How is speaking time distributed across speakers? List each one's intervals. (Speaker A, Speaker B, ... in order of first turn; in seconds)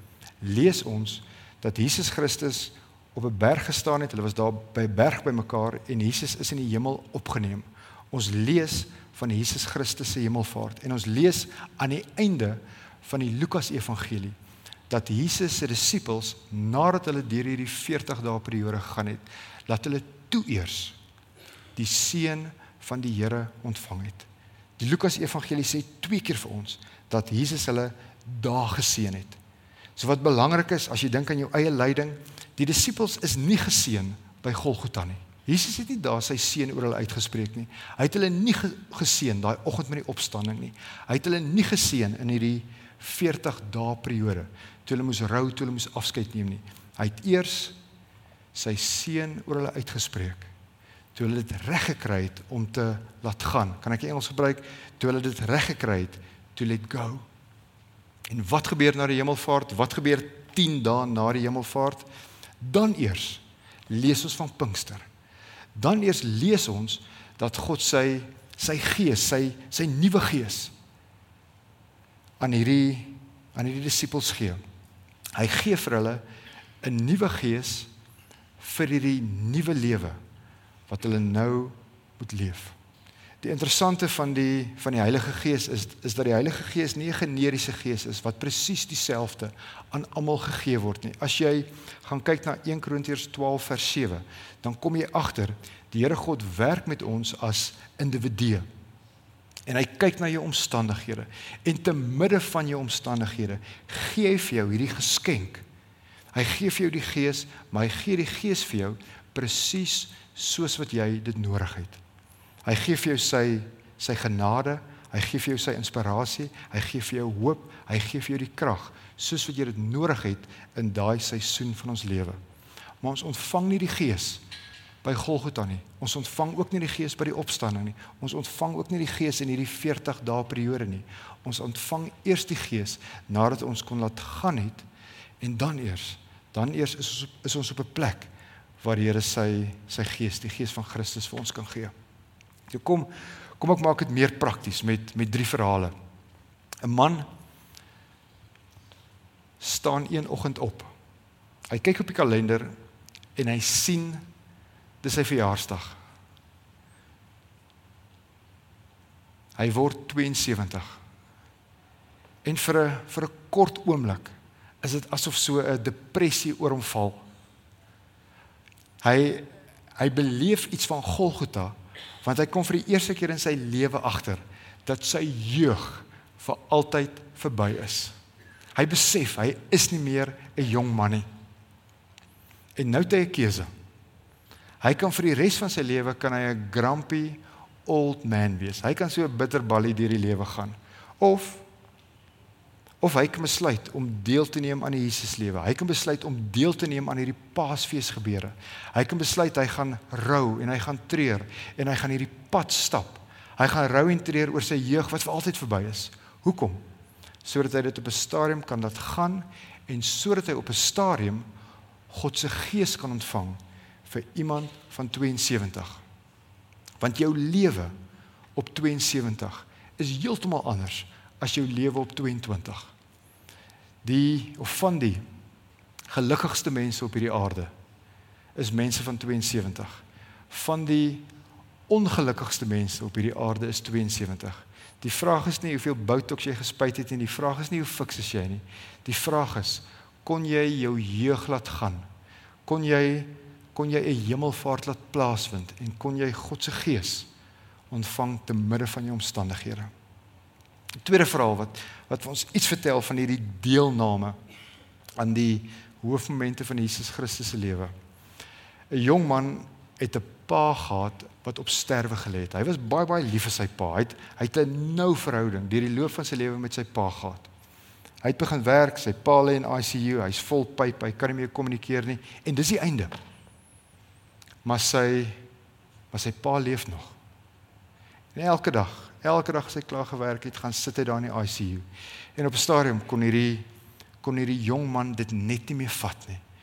Speaker A: 0.4-14.4, 14.9-21.0, 21.8-24.3, 24.8-29.4, 30.0-47.8, 48.5-50.5, 51.1-57.2, 58.3-62.1, 62.6-65.1, 65.8-70.7, 72.4-74.6, 75.4-76.2, 76.8-77.9, 78.6-80.2, 80.9-82.8, 83.4-98.7, 99.7-105.6, 106.3-112.0, 112.7-122.4, 123.0-124.4, 125.0-134.8, 135.4-138.3, 138.8-141.9, 142.7-145.9, 146.8-147.3, 149.6-150.9, 151.7-152.7, 153.4-154.2, 155.0-156.0, 159.6-161.0, 162.4-167.2, 169.0-169.5, 170.0-178.1, 178.8-181.3, 182.8-183.7, 184.8-191.6, 193.0-206.8, 207.4-211.5, 212.1-216.0, 217.0-217.9, 218.6-222.9, 224.0-225.2, 226.1-227.7, 228.6-231.3, 231.9-242.1, 242.7-247.3, 247.9-249.9, 251.0-254.4, 255.2-257.9, 258.9-267.5, 268.2-273.1, 274.6-275.4, 276.1-277.1, 278.3-283.7, 284.2-286.4